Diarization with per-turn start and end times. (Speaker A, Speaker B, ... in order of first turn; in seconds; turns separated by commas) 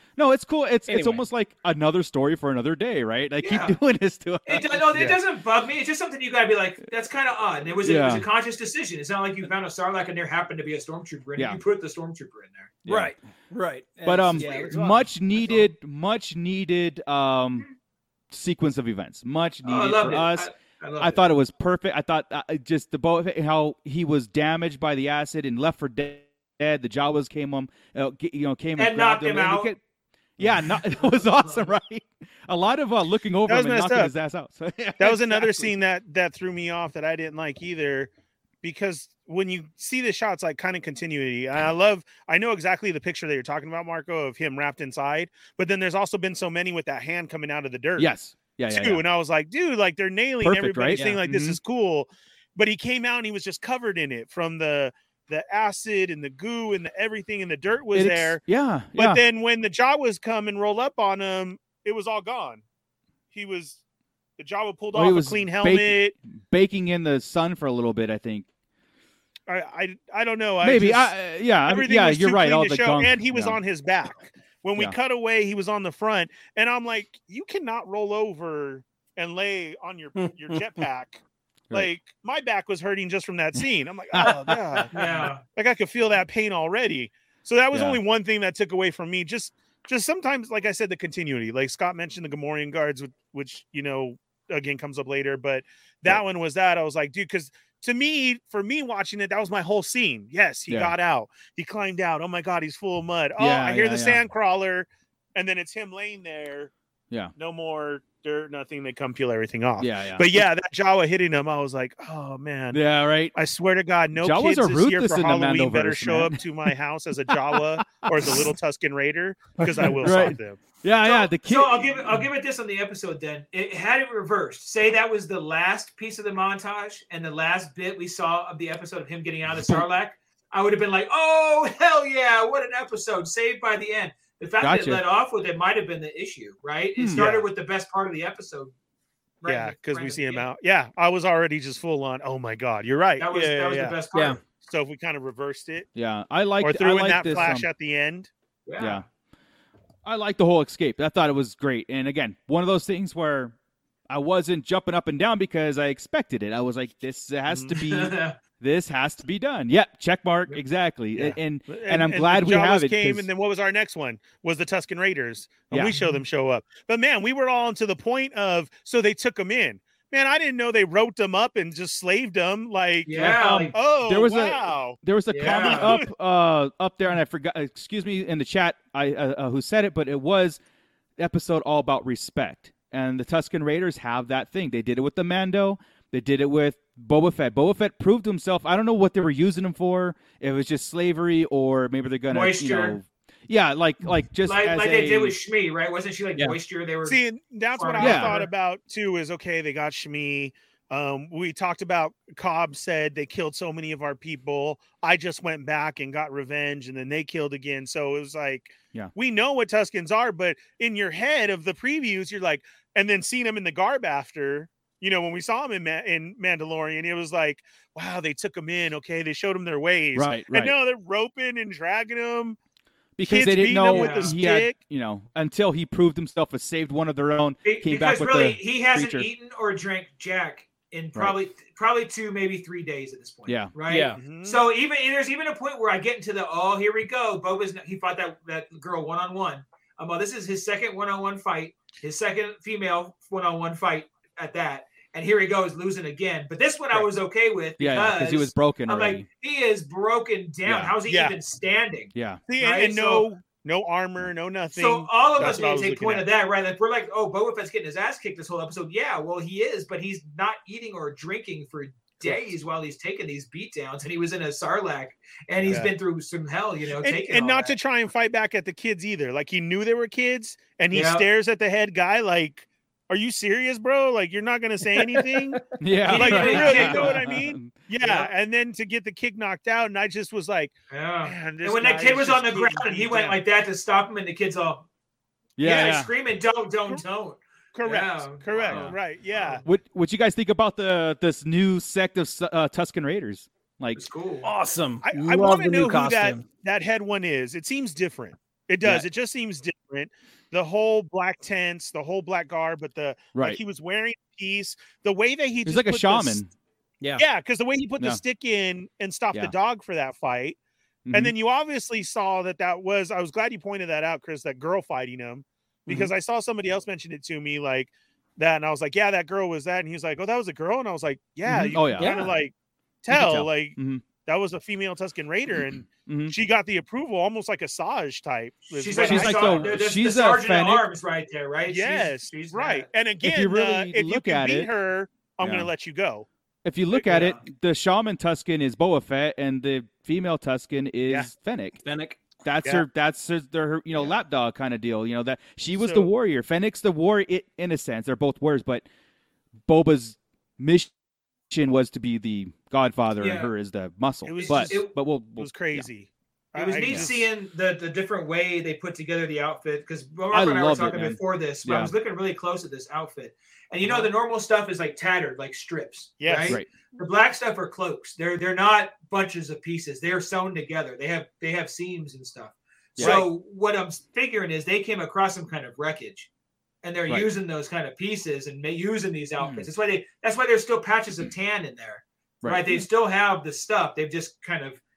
Speaker A: 0.2-5.2, Speaker B: 0.9-1.2, Speaker C: 3.4-3.7, Speaker C: 4.5-12.8, Speaker A: 7.8-8.2, Speaker A: 11.3-11.6, Speaker A: 12.8-13.1, Speaker B: 12.9-15.6, Speaker A: 14.0-17.7, Speaker C: 14.4-14.8, Speaker A: 18.3-29.8, Speaker C: 19.6-21.3, Speaker C: 28.8-29.7, Speaker A: 30.4-35.7, Speaker C: 30.9-31.7, Speaker D: 33.5-34.1, Speaker D: 35.0-38.1, Speaker D: 38.6-48.1, Speaker A: 48.0-49.0, Speaker D: 48.7-58.4, Speaker A: 50.4-51.6, Speaker B: 50.9-51.2, Speaker A: 57.9-59.2, Speaker D: 59.0-62.6, Speaker D: 63.3-63.8, Speaker D: 64.4-66.1, Speaker A: 64.9-68.5, Speaker D: 69.5-71.1, Speaker A: 70.6-73.6, Speaker D: 71.7-81.2, Speaker B: 80.2-80.5, Speaker D: 81.7-106.7, Speaker A: 83.6-84.6, Speaker C: 84.9-85.4, Speaker A: 87.7-88.0, Speaker A: 100.7-100.9, Speaker A: 103.4-104.2, Speaker D: 107.3-112.8, Speaker A: 109.8-110.4, Speaker A: 112.7-113.3, Speaker D: 113.3-120.6, Speaker A: 114.1-116.7, Speaker A: 118.2-118.5, Speaker A: 119.9-122.2, Speaker C: 121.0-138.7, Speaker A: 134.6-135.0, Speaker A: 137.0-137.3, Speaker D: 137.1-137.4, Speaker C: 139.4-140.5, Speaker D: 139.4-144.0, Speaker C: 143.2-144.4, Speaker B: 144.1-144.4, Speaker D: 144.6-145.9, Speaker A: 145.9-147.7, Speaker D: 146.6-148.3, Speaker C: 147.2-147.5, Speaker C: 148.7-149.0, Speaker A: 148.8-149.1, Speaker A: 150.0-153.5, Speaker A: 154.1-163.3, Speaker D: 157.5-157.7, Speaker C: 157.8-158.3, Speaker D: 161.2-176.1, Speaker C: 173.1-173.7, Speaker A: 173.2-180.6, Speaker C: 175.3-176.0, Speaker A: 181.2-195.3, Speaker C: 192.3-193.0, Speaker C: 194.4-197.2, Speaker D: 197.0-222.6, Speaker C: 197.7-198.5, Speaker A: 198.0-198.3, Speaker A: 220.1-220.7, Speaker A: 223.2-229.3, Speaker D: 223.2-224.7, Speaker C: 223.9-224.3, Speaker C: 227.6-253.3, Speaker A: 233.4-233.7, Speaker B: 233.8-234.2, Speaker D: 234.2-234.6, Speaker A: 247.8-249.2, Speaker A: 250.7-250.9, Speaker D: 251.1-251.3, Speaker A: 252.1-252.4, Speaker D: 252.5-256.2, Speaker C: 254.7-267.8, Speaker D: 265.6-265.9, Speaker D: 267.0-280.7, Speaker C: 270.9-271.2, Speaker B: 275.0-275.6, Speaker A: 275.8-277.7, Speaker C: 276.0-277.2, Speaker C: 278.0-278.3, Speaker C: 280.9-284.8, Speaker D: 281.2-283.4, Speaker A: 285.6-286.1, Speaker C: 285.6-289.6, Speaker D: 287.7-289.6, Speaker B: 288.6-288.9, Speaker A: 289.6-294.0, Speaker C: 293.9-294.5, Speaker B: 294.4-296.4, Speaker D: 295.0-306.4, Speaker A: 303.3-303.6, Speaker A: 305.6-306.5, Speaker D: 307.2-310.6, Speaker A: 311.1-311.3, Speaker D: 311.1-329.8, Speaker A: 321.5-322.2, Speaker B: 322.0-322.3, Speaker A: 323.1-324.0, Speaker A: 325.8-326.3, Speaker C: 328.7-332.9, Speaker A: 329.0-330.8, Speaker D: 331.7-336.3, Speaker A: 333.2-334.7, Speaker A: 335.4-335.7, Speaker A: 336.6-341.8, Speaker C: 337.1-337.4, Speaker B: 341.8-342.2, Speaker A: 342.4-348.8, Speaker D: 345.8-346.1, Speaker A: 349.7-350.9, Speaker A: 351.5-355.9, Speaker C: 353.2-353.5, Speaker D: 354.2-357.2, Speaker C: 354.4-354.9, Speaker C: 356.6-376.3, Speaker A: 356.8-357.1, Speaker A: 360.3-361.9, Speaker D: 366.2-366.6, Speaker A: 373.0-373.2, Speaker D: 373.0-373.3, Speaker C: 376.8-384.8, Speaker A: 379.4-379.7